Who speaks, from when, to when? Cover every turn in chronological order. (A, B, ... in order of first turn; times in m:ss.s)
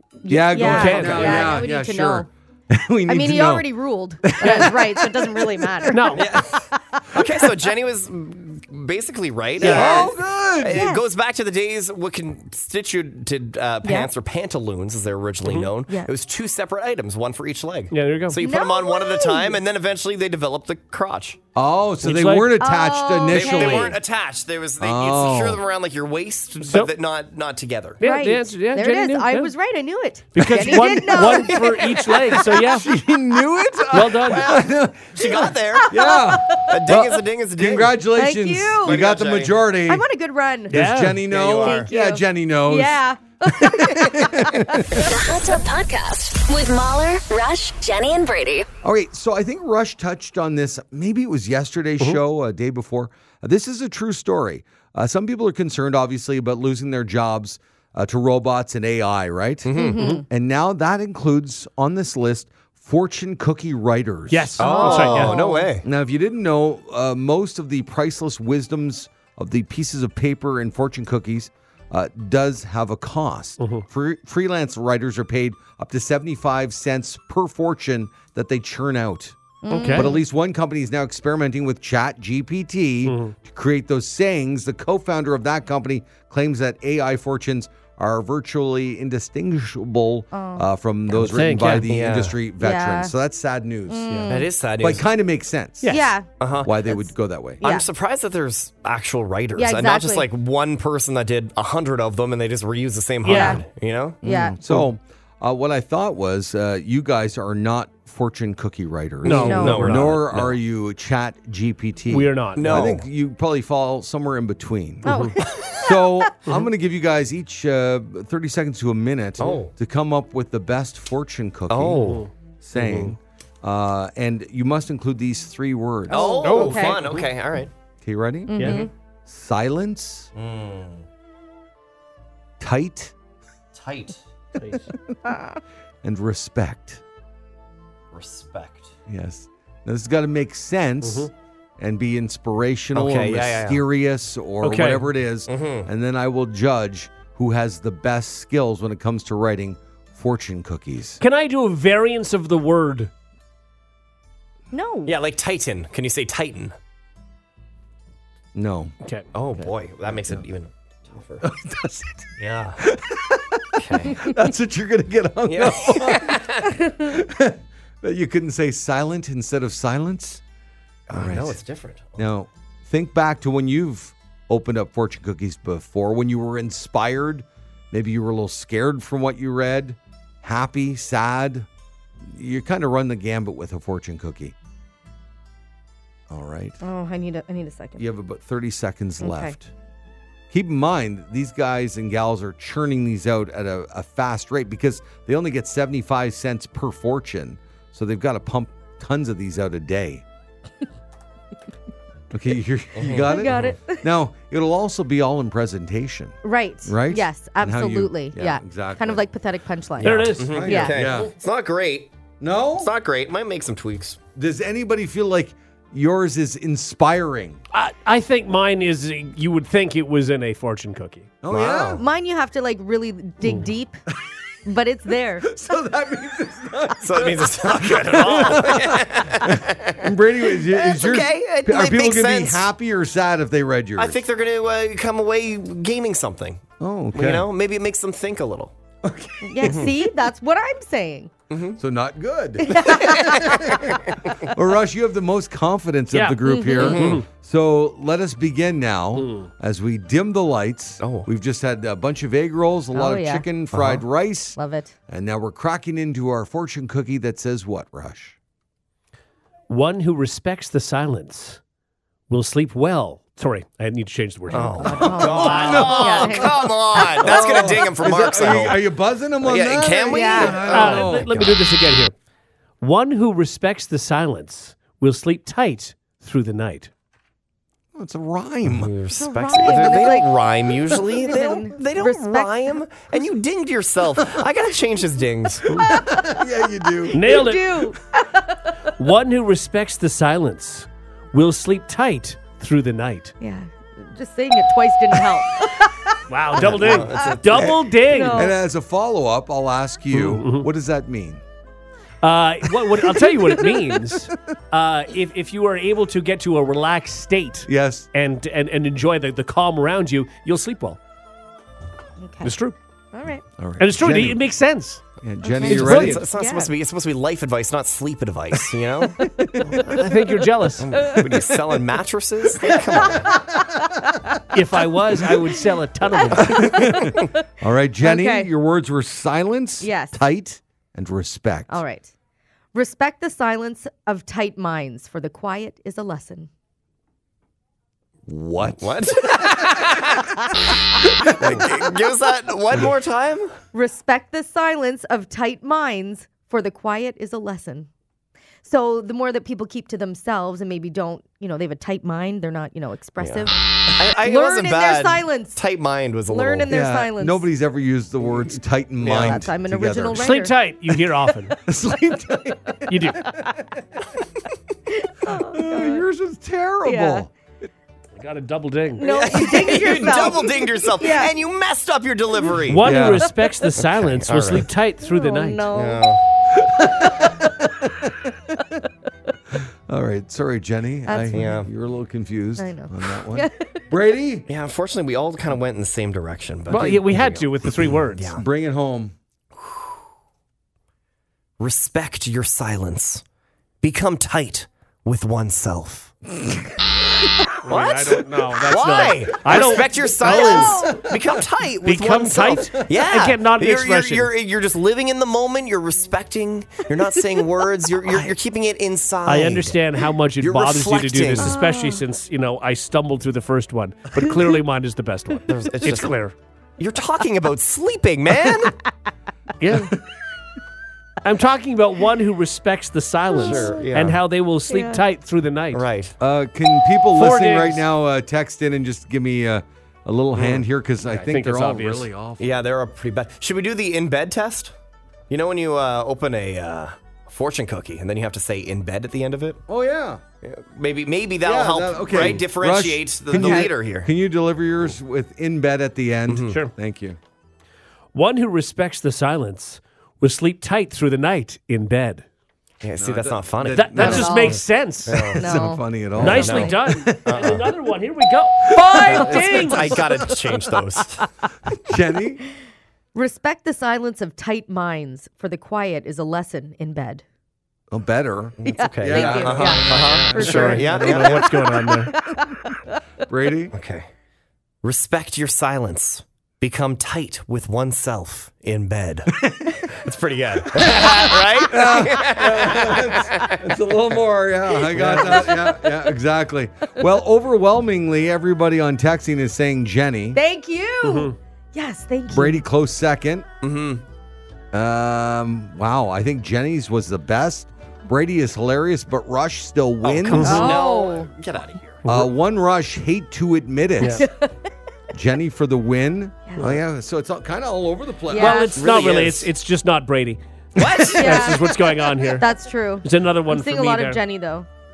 0:00.2-0:02.3 A
0:00.3-0:03.7 B
0:00.5-0:01.6 C
0:01.0-0:01.3 D
0:03.1-0:07.2 A
0:04.2-0:06.6 B
0:04.4-0:04.7 C
0:05.9-0:06.3 C
0:06.2-0:06.5 D
0:07.1-0:21.4 D
0:09.6-0:10.1 C
0:09.6-0:10.9 B
0:10.7-0:11.0 A
0:13.8-0:14.1 A
0:15.4-0:15.7 C
0:15.9-0:16.1 A
0:17.9-0:18.4 C
0:18.4-0:19.6 A
0:21.6-0:24.0 B
0:22.0-0:22.5 C
0:22.6-0:24.0 A
0:23.3-0:28.0 D
0:24.8-0:25.6 B
0:26.6-0:26.9 C
0:28.0-0:29.5 C
0:28.0-0:32.5 A
0:30.4-0:32.9 C
0:30.4-0:31.3 B
0:31.5-0:32.2 D
0:32.6-0:40.0 B
0:33.9-0:34.6 C
0:33.9-0:36.0 D
0:35.7-0:37.0 A
0:36.6-0:37.9 D
0:38.2-0:39.0 A
0:38.8-0:39.6 D
0:39.9-0:40.8 A
0:40.7-0:45.0 B
0:40.7-0:41.3 C
0:41.3-0:41.9 D
0:41.6-0:45.1 A
0:45.0-0:48.7 E
0:48.8-1:04.6 B
0:59.6-1:00.2 D
0:59.7-1:00.3 A
1:00.0-1:00.2 C
1:04.3-1:05.4 C
1:04.6-1:05.7 A
1:04.6-1:05.8 D
1:05.8-1:34.2 B
1:13.6-1:13.8 C
1:19.6-1:20.2 A
1:19.7-1:20.1 C
1:23.0-1:23.3 C
1:30.3-1:30.7 A
1:31.2-1:32.2 C
1:31.9-1:32.3 D
1:32.6-1:33.1 A
1:33.9-1:34.5 A
1:34.3-1:35.1 D
1:34.8-1:37.6 B
1:35.9-1:36.3 A
1:36.4-1:36.8 D
1:37.6-1:44.2 D
1:37.6-1:37.9 A
1:39.6-1:40.3 A
1:43.2-1:43.6 C
1:43.3-1:43.6 A
1:44.2-1:55.1 B
1:44.2-1:44.6 A
1:49.2-1:50.2 C
1:49.2-1:50.6 D
1:49.3-1:49.9 A
1:52.1-1:53.0 C
1:52.6-1:53.0 D
1:55.0-1:55.3 C
1:55.0-1:56.2 A
1:55.5-1:55.8 D
1:55.6-2:02.1 B
1:59.4-1:59.7 D
2:01.7-2:02.3 D
2:02.0-2:03.2 C
2:02.6-2:06.5 B
2:06.1-2:07.7 D
2:06.2-2:07.0 A
2:06.4-2:07.3 C
2:08.0-2:10.3 B
2:08.5-2:08.9 A
2:08.6-2:08.8 C
2:10.4-2:11.1 D
2:12.6-2:13.2 B
2:13.7-2:14.3 D
2:14.6-2:14.9 C
2:14.7-2:15.2 B
2:16.0-2:17.0 B
2:18.1-2:19.0 D
2:19.1-2:31.2 B
2:21.0-2:21.3 C
2:22.9-2:23.8 D
2:24.6-2:25.1 C
2:25.5-2:25.9 D
2:31.2-2:33.1 C
2:34.7-2:35.1 A
2:35.1-2:36.8 D
2:38.6-2:38.9 B
2:39.3-2:41.5 D
2:39.6-2:40.4 B
2:41.4-2:50.4 B
2:42.4-2:42.8 D
2:43.8-2:44.3 D
2:45.5-2:46.8 D
2:51.1-2:51.6 B
2:51.1-2:52.3 D
2:52.2-3:01.7 B
3:02.2-3:04.5 B
3:06.3-3:06.8 B
3:06.8-3:08.1 A
3:08.0-3:09.7 B
3:09.2-3:09.6 A
3:10.5-3:20.2 B
3:22.3-3:29.3 B
3:23.0-3:23.7 D
3:23.3-3:24.1 A
3:26.4-3:31.0 A
3:30.0-3:30.9 C
3:30.0-3:31.3 B
3:30.1-3:32.1 D
3:32.4-3:32.9 B
3:32.8-3:34.2 D
3:34.4-3:37.6 B
3:37.7-3:41.3 C
3:41.4-3:42.0 B
3:41.5-3:42.0 D
3:42.0-3:44.0 A
3:44.6-3:45.5 A
3:45.4-3:54.2 B
3:47.0-3:52.7 D
3:54.0-3:58.8 D
3:56.8-3:57.5 B
3:59.0-4:00.1 B
3:59.4-4:01.3 A
3:59.6-3:59.9 D
4:01.5-4:01.8 D
4:01.8-4:14.6 B
4:02.6-4:03.6 A
4:03.0-4:04.3 D
4:06.1-4:07.3 C
4:06.4-4:07.0 A
4:06.8-4:07.2 D
4:09.2-4:09.5 C
4:11.0-4:11.3 D
4:12.9-4:13.5 A
4:13.7-4:14.0 D
4:14.6-4:14.9 A
4:15.1-4:18.4 B
4:19.7-4:21.6 C
4:22.3-4:25.8 C
4:24.5-4:31.6 D
4:24.8-4:26.5 A
4:24.8-4:31.5 B
4:30.1-4:30.9 A
4:30.6-4:32.1 C
4:32.8-4:36.9 C
4:37.9-4:38.9 B
4:38.6-4:45.8 D
4:39.2-4:40.3 A
4:40.9-4:42.8 A
4:45.8-4:47.2 B
4:47.1-4:48.8 A
4:47.1-4:48.0 C
4:49.0-4:53.3 C
4:53.4-4:56.1 A
4:56.3-4:58.5 C
4:56.5-4:57.9 D
4:57.1-4:57.4 A
4:57.9-4:58.6 A
4:58.3-5:01.4 B
5:00.1-5:00.7 C
5:02.2-5:11.0 C
5:03.5-5:03.8 A
5:07.7-5:08.1 B
5:12.2-5:12.6 A
5:12.4-5:12.8 C
5:13.1-5:13.4 A
5:13.6-5:14.4 B
5:13.8-5:15.0 C
5:15.2-5:16.2 B
5:15.4-5:16.7 A
5:15.7-5:16.2 C
5:15.7-5:19.2 D
5:19.2-5:20.1 B
5:19.8-5:21.2 C
5:20.8-5:23.3 D
5:23.3-5:23.8 A
5:24.5-5:26.7 C
5:26.1-5:27.2 A
5:26.3-5:31.8 B
5:26.3-5:27.3 D
5:28.0-5:28.5 A
5:29.8-5:30.2 A
5:31.7-5:32.1 A
5:32.7-5:36.5 A
5:38.3-5:39.9 B
5:38.6-5:40.4 D
5:41.0-5:41.9 B
5:41.0-5:43.5 D
5:43.7-5:47.9 A
5:48.6-5:53.6 A
5:53.2-5:56.7 D
5:54.1-5:55.6 A
5:56.3-5:57.5 A
5:56.7-6:00.4 B
5:59.0-5:59.4 D
5:59.1-6:00.6 A
6:00.2-6:01.6 C
6:01.6-6:03.6 B
6:02.9-6:03.3 C
6:04.9-6:06.0 A
6:05.3-6:07.3 B
6:06.8-6:07.3 A
6:08.2-6:09.3 C
6:09.0-6:11.3 A
6:09.0-6:12.8 D
6:09.6-6:10.2 B
6:12.7-6:15.7 C
6:12.8-6:13.3 B
6:13.9-6:14.7 D
6:15.0-6:16.1 A
6:15.7-6:16.2 D
6:16.5-6:18.6 B
6:19.5-6:24.5 B
6:21.1-6:21.6 A
6:21.3-6:21.7 D
6:22.6-6:23.8 A
6:24.5-6:28.5 D
6:26.7-6:28.4 C
6:28.4-6:29.2 B
6:29.6-6:29.9 D
6:31.6-6:33.2 D
6:33.8-6:36.2 D
6:37.6-6:41.0 C
6:37.7-6:49.8 D
6:40.2-6:41.1 A
6:41.8-6:44.3 C
6:49.2-6:56.4 C
6:50.4-6:51.6 D
6:51.4-6:52.0 A
6:55.5-6:56.2 D
6:56.8-6:58.8 D
6:59.6-7:00.0 C
7:01.2-7:05.8 C
7:03.4-7:03.8 A
7:03.4-7:04.2 D
7:04.7-7:05.0 A
7:05.7-7:06.2 D
7:06.2-7:12.7 B
7:07.1-7:07.8 C
7:10.4-7:10.6 D
7:11.0-7:12.1 C
7:12.4-7:14.7 D
7:15.3-7:19.6 D
7:19.7-7:20.2 B
7:20.4-7:24.1 D
7:21.4-7:27.2 B
7:23.4-7:23.7 A
7:26.3-7:26.6 D
7:28.1-7:32.2 C
7:32.8-7:35.5 D
7:33.0-7:34.6 B
7:33.7-7:35.4 C
7:34.0-7:34.6 A
7:35.4-7:36.8 A
7:35.4-7:37.6 B
7:36.2-7:37.7 D
7:36.2-7:40.0 C
7:38.7-7:39.7 B
7:39.0-7:39.9 A
7:39.0-7:41.3 D
7:41.8-7:42.4 B
7:43.1-7:47.2 A
7:47.9-7:51.0 B
7:48.6-7:51.5 D
7:48.6-7:53.0 A
7:50.3-7:52.1 C
7:53.2-7:53.7 B
7:53.7-7:54.1 D
7:54.8-8:03.8 D
7:59.4-8:00.0 B
8:00.6-8:10.4 B
8:04.9-8:05.4 C
8:05.4-8:06.0 A
8:10.4-8:12.6 A
8:11.0-8:11.4 C
8:12.3-8:13.5 B
8:13.6-8:14.0 D
8:14.7-8:20.8 B
8:20.0-8:22.0 D
8:20.3-8:20.8 C
8:20.3-8:21.3 A
8:22.0-8:22.3 C
8:22.1-8:24.3 B
8:24.1-8:24.7 A
8:25.1-8:28.7 B
8:28.3-8:28.7 A
8:28.3-8:30.4 C
8:28.8-8:29.5 D
8:30.8-8:31.4 B
8:30.8-8:32.2 D
8:31.0-8:32.5 C
8:31.2-8:31.6 A
8:32.4-8:34.7 A
8:33.0-8:34.2 C